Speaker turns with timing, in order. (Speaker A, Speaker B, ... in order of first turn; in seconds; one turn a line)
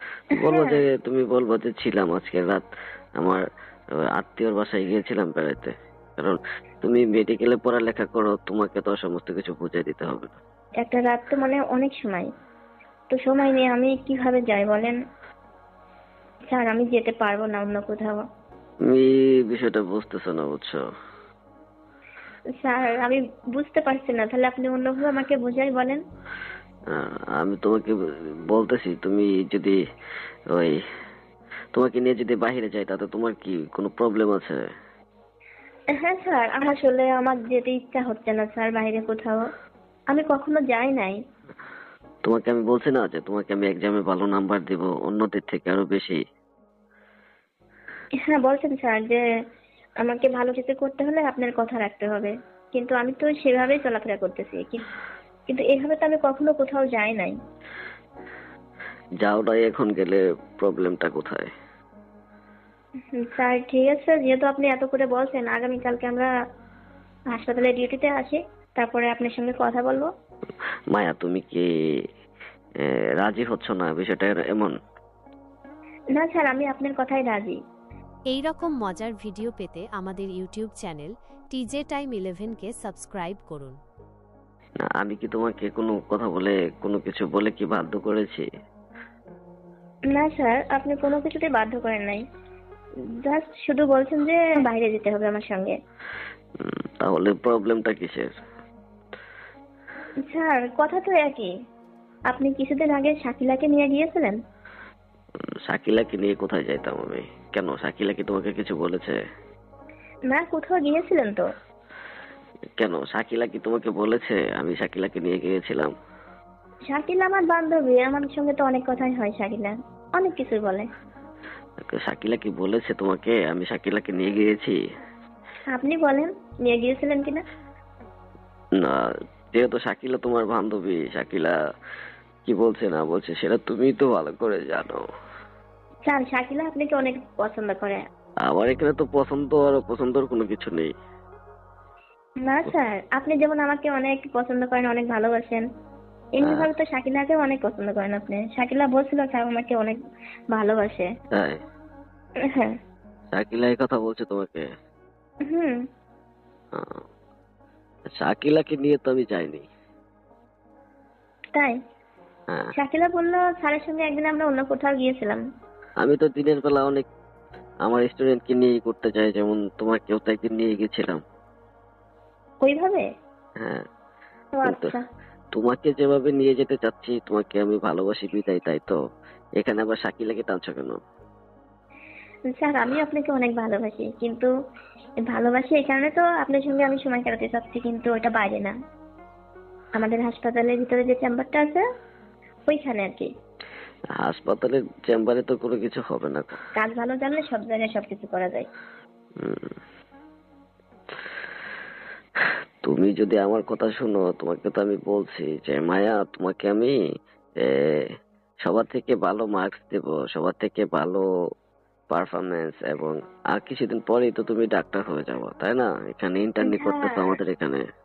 Speaker A: 0.4-2.6
Speaker B: 0.4-0.8
Speaker A: 3.2-3.4
Speaker A: 4.1-10.4
Speaker B: 10.8-12.3
Speaker B: 13.1-15.0
Speaker B: 16.5-18.2
Speaker A: 18.9-20.8
Speaker B: 22.6-26.0
Speaker A: 26.9-27.9
Speaker A: 28.5-29.8
Speaker A: 31.7-34.6
Speaker B: 36.0-39.4
Speaker B: 40.1-41.1
Speaker A: 42.2-46.2
Speaker B: 48.2-49.2
Speaker B: 50.0-54.8
Speaker B: 55.5-57.4
Speaker A: 59.2-61.5
Speaker B: 63.2-66.3
Speaker B: 67.3-70.1
Speaker A: 70.9-71.7
Speaker A: 73.2-74.7
Speaker B: 76.2-77.5
Speaker C: 78.3-83.8
Speaker A: 84.9-88.4
Speaker B: 90.1-92.2
Speaker B: 93.2-95.8
Speaker A: 96.6-98.3
Speaker B: 100.3-101.5
Speaker B: 102.3-104.4
Speaker A: 105.7-109.2
Speaker B: 110.3-111.4
Speaker A: 112.8-115.9
Speaker B: 116.9-120.8
Speaker A: 121.8-124.8
Speaker B: 125.7-127.4
Speaker A: 129.5-131.5
Speaker A: 132.4-135.0
Speaker B: 136.1-138.0
Speaker A: 138.4-140.9
Speaker B: 142.4-145.6
Speaker B: 146.3-149.9
Speaker A: 146.4-146.7
Speaker B: 150.5-151.1
Speaker A: 151.3-151.6
Speaker B: 152.5-152.7
Speaker A: 153.3-154.6
Speaker B: 155.5-155.8
Speaker A: 156.7-157.0
Speaker A: 158.1-159.7
Speaker B: 162.8-165.4
Speaker A: 166.0-167.0
Speaker A: 167.8-171.2
Speaker B: 172.6-173.0
Speaker B: 174.6-175.0
Speaker A: 174.6-174.9
Speaker A: 175.5-179.0
Speaker A: 179.6-181.0
Speaker B: 182.5-184.5
Speaker B: 185.3-188.7
Speaker B: 189.9-191.8
Speaker B: 192.7-193.3
Speaker A: 194.2-196.5
Speaker B: 196.8-198.7
Speaker A: 199.4-199.7
Speaker A: 202.8-206.9
Speaker A: 207.6-208.0
Speaker A: 208.7-211.2
Speaker A: 212.1-217.8
Speaker B: 216.6-217.3